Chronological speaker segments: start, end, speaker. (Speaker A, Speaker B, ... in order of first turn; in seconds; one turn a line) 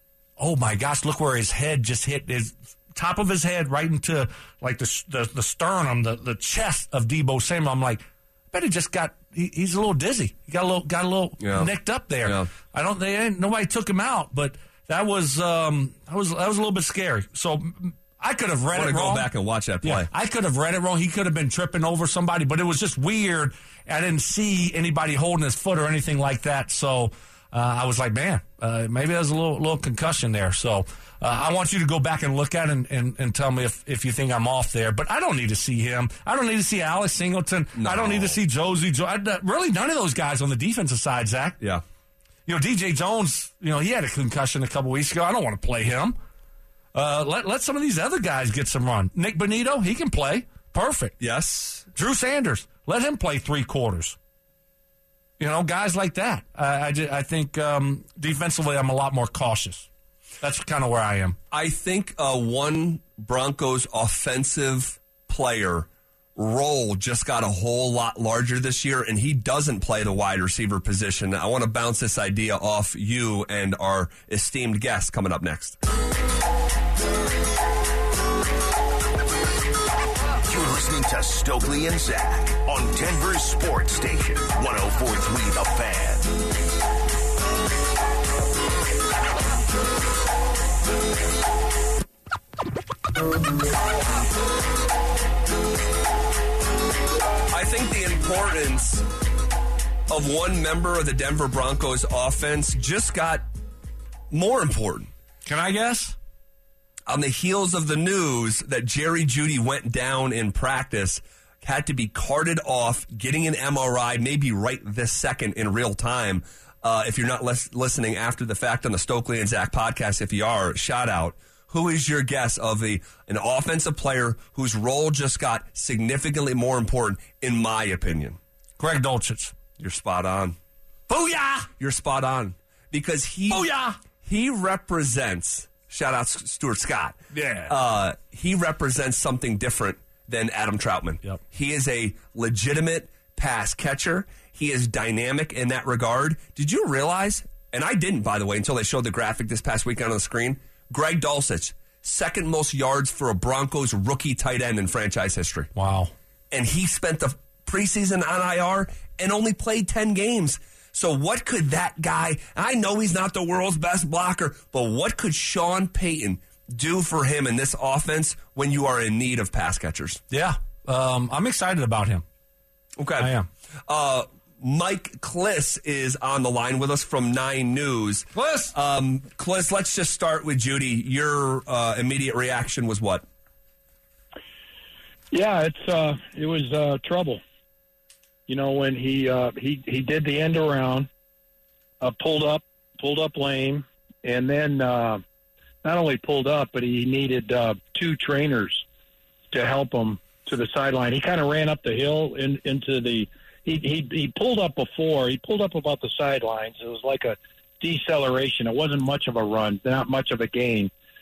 Speaker A: 0.4-19.3
Speaker B: 11.4-11.7
Speaker B: 12.2-12.5
Speaker B: 18.7-20.1
Speaker A: 19.8-41.6
Speaker B: 37.8-38.4
Speaker A: 42.5-46.2
Speaker A: 46.9-51.1
Speaker B: 51.2-51.9
Speaker A: 51.9-54.1
Speaker A: 55.4-59.9
Speaker A: 60.4-61.4
Speaker B: 61.5-75.8
Speaker C: 80.4-86.3
Speaker B: 97.5-99.0
Speaker B: 100.1-103.4
Speaker B: 104.3-105.1
Speaker A: 105.5-106.2
Speaker B: 107.1-128.4
Speaker A: 128.8-129.5
Speaker B: 129.8-130.6
Speaker A: 131.1-131.7
Speaker B: 131.8-133.7
Speaker A: 133.5-133.9
Speaker B: 134.2-155.7
Speaker A: 137.3-137.7
Speaker A: 155.7-156.1
Speaker B: 156.5-170.2
Speaker A: 170.3-172.2
Speaker B: 173.0-173.3
Speaker A: 173.2-173.5
Speaker B: 173.9-183.2
Speaker A: 178.3-178.7
Speaker D: 185.3-187.4
Speaker D: 188.5-191.1
Speaker D: 192.0-195.2
Speaker D: 195.8-198.8
Speaker D: 199.5-210.9